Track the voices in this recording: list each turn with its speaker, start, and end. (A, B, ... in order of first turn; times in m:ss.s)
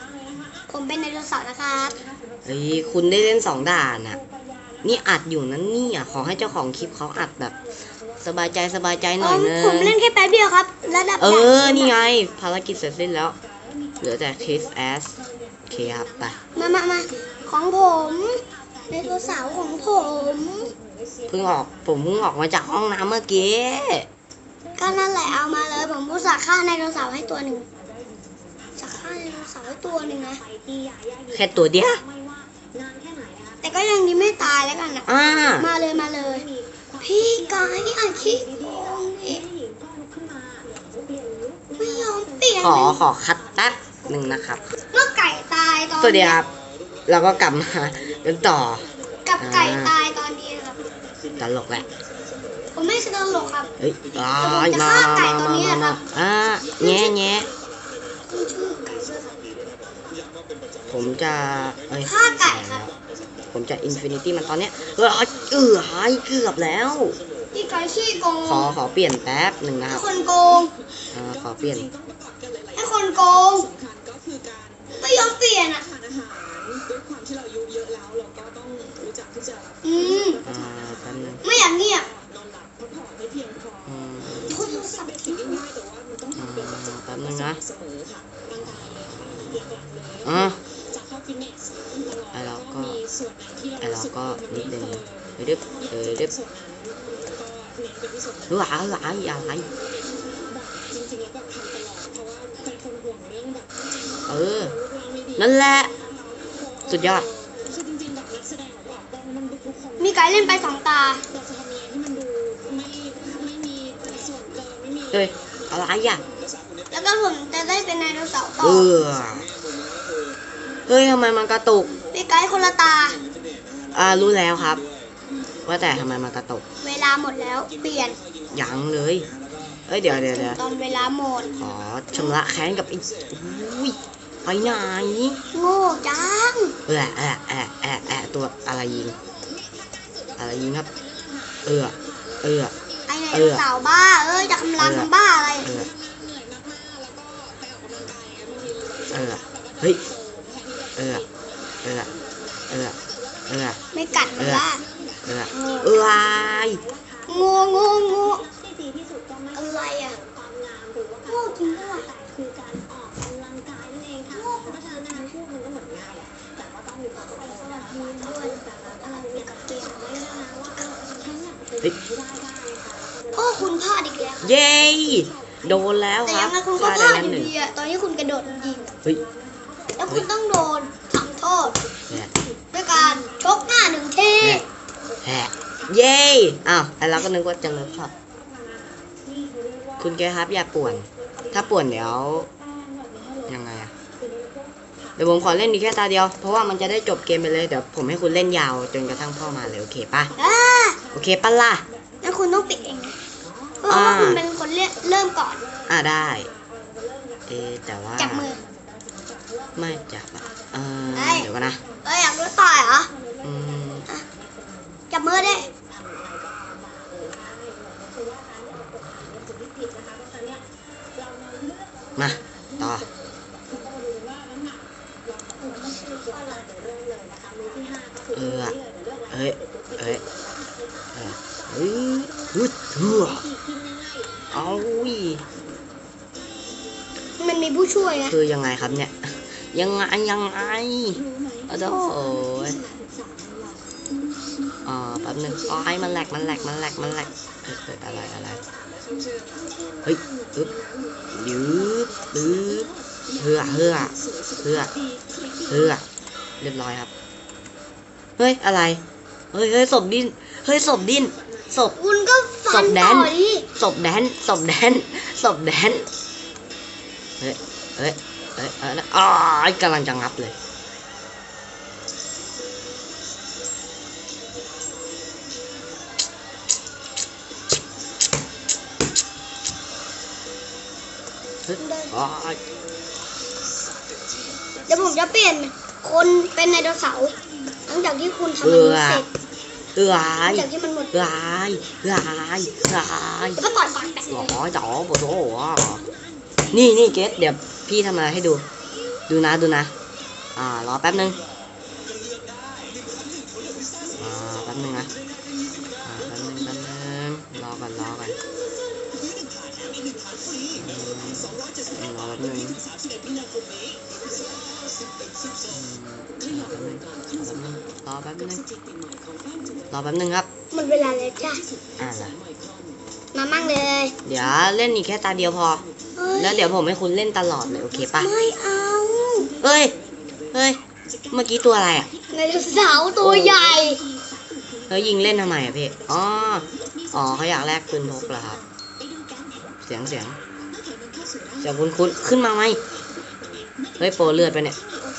0:00.7-0:02.0 A
0:02.4-0:04.2 B
0:04.8-0:07.5 B
0:08.2-0:10.0 B
0:09.2-0:11.9 A
0:11.2-0:13.4 B
0:14.0-0:15.1 B
0:15.7-0:16.4 B
0:16.5-0:20.7 A
0:21.3-0:24.1 B
0:24.8-0:27.7 A
0:28.8-0:30.4 A
0:31.3-0:32.0 B
0:33.6-0:35.1 A
0:35.1-0:35.7 B
0:35.6-0:36.5 A
0:37.0-0:39.4 A
0:41.8-0:43.0 A
0:42.6-0:44.6 B
0:44.9-0:46.4 A
0:46.0-0:46.5 B
0:47.1-0:48.8 B
0:49.2-0:50.8 A
0:49.4-0:49.9 B
0:51.4-0:51.9 B
0:52.7-0:53.7 A
0:53.8-0:57.5 B
0:54.3-0:56.0 A
0:56.8-0:57.1 A
0:58.2-0:59.5 A
1:00.9-1:02.9 B
1:02.0-1:02.8 A
1:03.5-1:07.2 B
1:07.5-1:08.7 A
1:08.4-1:10.1 B
1:09.9-1:10.7 A
1:11.1-1:11.9 B
1:12.7-1:13.7 A
1:15.0-1:15.8 A
1:19.8-1:20.4 A
1:20.4-1:21.4 B
1:21.4-1:22.1 A
1:23.8-1:24.6 B
1:24.5-1:25.6 A
1:26.3-1:27.6 B
1:28.5-1:30.6 B
1:32.3-1:33.0 B
1:33.8-1:36.3 B
1:38.5-1:39.6 B
1:44.3-1:44.8 B
1:45.4-1:45.9 B
1:46.9-1:47.3 B
1:50.0-1:51.2 A
1:55.1-1:56.2 B
1:56.9-1:58.9 A
1:58.6-1:59.5 B
2:00.9-2:01.9 B
2:02.1-2:03.2 A
2:03.9-2:04.8 B
2:05.6-2:06.6 B
2:06.8-2:08.2 A
2:08.5-2:09.3 B
2:09.9-2:10.6 B
2:10.0-2:11.5 A
2:11.6-2:15.4 B
2:15.5-2:16.8 A
2:16.9-2:19.2 B
2:20.4-2:20.9 B
2:21.6-2:22.7 B
2:23.1-2:25.7 A
2:23.3-2:23.6 B
2:24.8-2:25.1 B
2:25.6-2:25.9 B
2:29.1-2:30.0 B
2:31.0-2:31.2 B
2:31.8-2:32.1 B
2:32.7-2:33.0 B
2:33.5-2:33.8 B
2:33.9-2:34.8 A
2:34.4-2:34.6 B
2:35.2-2:36.8 B
2:35.5-2:36.0 A
2:37.3-2:38.4 A
2:39.5-2:40.2 A
2:41.2-2:42.1 A
2:44.3-2:45.4 A
2:47.1-2:51.4 A
2:53.3-2:54.5 A
2:54.4-2:57.5 B
2:56.2-2:58.9 A
2:59.9-3:01.8 A
3:02.7-3:04.6 A
3:05.2-3:08.1 B
3:10.0-3:12.5 B
3:13.5-3:13.9 B
3:15.2-3:20.3 B
3:20.4-3:21.0 A
3:21.1-3:21.8 B
3:22.2-3:23.2 A
3:23.8-3:25.6 A
3:23.9-3:24.4 B
3:25.9-3:26.5 B
3:27.5-3:28.5 B
3:28.2-3:28.6 A
3:29.8-3:31.8 B
3:31.1-3:31.5 A
3:32.0-3:33.1 A
3:33.4-3:34.1 B
3:35.1-3:35.7 A
3:42.2-3:43.1 B
3:46.0-3:46.6 A
3:48.3-3:48.8 B
3:49.3-3:50.2 B
3:51.1-3:53.5 B
3:54.5-3:55.4 B
3:57.4-3:58.4 A
3:58.3-3:59.2 B
3:59.7-4:02.8 B
4:04.8-4:08.6 B
4:10.0-4:10.7 B
4:11.3-4:14.9 B
4:15.7-4:16.0 B
4:16.6-4:17.1 B
4:18.4-4:19.0 B
4:19.5-4:22.0 B
4:22.0-4:23.7 A
4:22.7-4:26.1 B
4:27.4-4:30.6 B
4:41.7-4:42.6 B
4:41.8-4:42.1 A
4:44.9-4:47.4 A
4:47.9-4:49.3 A
4:48.6-4:49.2 B
4:50.0-4:53.6 B
4:50.4-4:51.2 A
4:53.6-4:54.5 A
4:54.3-4:56.0 B
4:56.7-4:58.6 B
4:59.3-4:59.9 B
5:00.6-5:01.4 B
5:04.1-5:05.1 B
5:06.0-5:08.4 B
5:10.8-5:12.8 B
5:15.7-5:18.6 B
5:19.9-5:20.5 B
5:20.7-5:21.6 A
5:22.0-5:22.4 B
5:23.3-5:24.1 A
5:24.2-5:25.8 B
5:26.2-5:26.7 A
5:26.4-5:28.3 B
5:28.2-5:29.5 A
5:29.6-5:29.9 B
5:30.5-5:30.8 B
5:31.3-5:32.1 B
5:32.3-5:34.0 A
5:33.2-5:33.7 B
5:34.9-5:38.6 B
5:39.8-5:40.4 B
5:41.6-5:42.8 B
5:44.0-5:44.8 B